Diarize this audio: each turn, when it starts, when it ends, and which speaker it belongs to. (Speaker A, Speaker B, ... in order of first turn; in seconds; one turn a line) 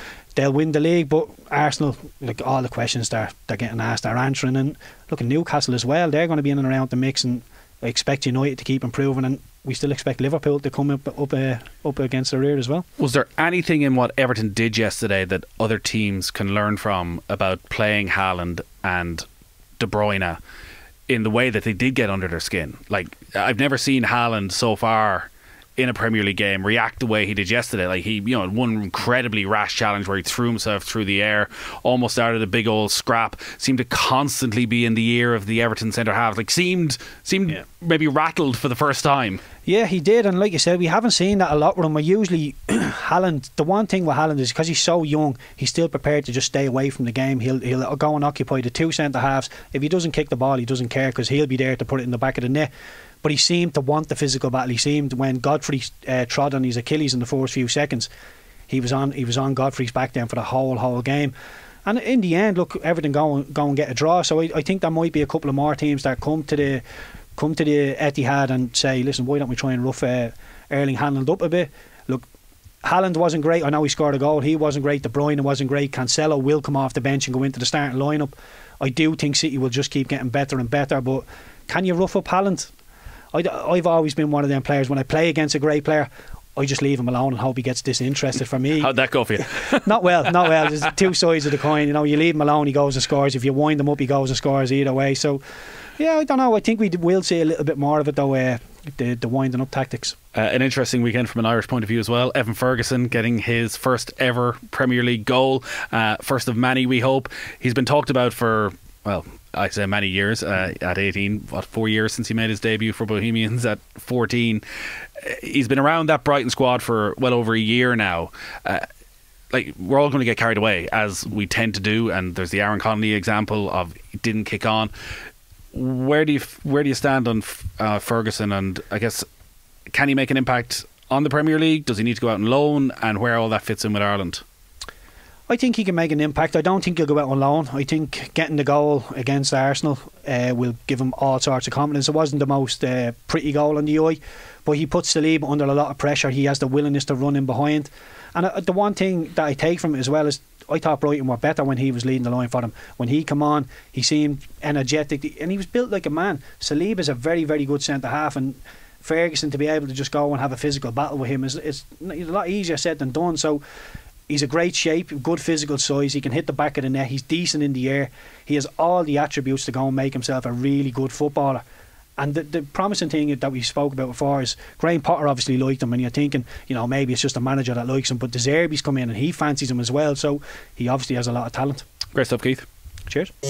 Speaker A: 0.3-12.8
Speaker B: 13.0-19.2
Speaker B: 19.8-20.4
Speaker B: 21.1-39.4
Speaker A: 39.6-52.7
Speaker A: 53.2-58.1
Speaker A: 58.7-61.3
Speaker A: 61.9-66.8
Speaker A: 67.4-72.2
Speaker A: 72.8-82.7
Speaker A: 83.3-88.9
Speaker B: 88.8-89.8
Speaker A: 89.8-95.4
Speaker A: 96.0-100.2
Speaker B: 100.3-114.6
Speaker B: 115.2-118.8
Speaker B: 119.5-124.9
Speaker B: 125.7-129.2
Speaker B: 129.9-134.4
Speaker A: 135.5-163.6
Speaker A: 164.3-171.6
Speaker A: 172.2-181.8
Speaker B: 182.1-182.7
Speaker A: 183.1-183.3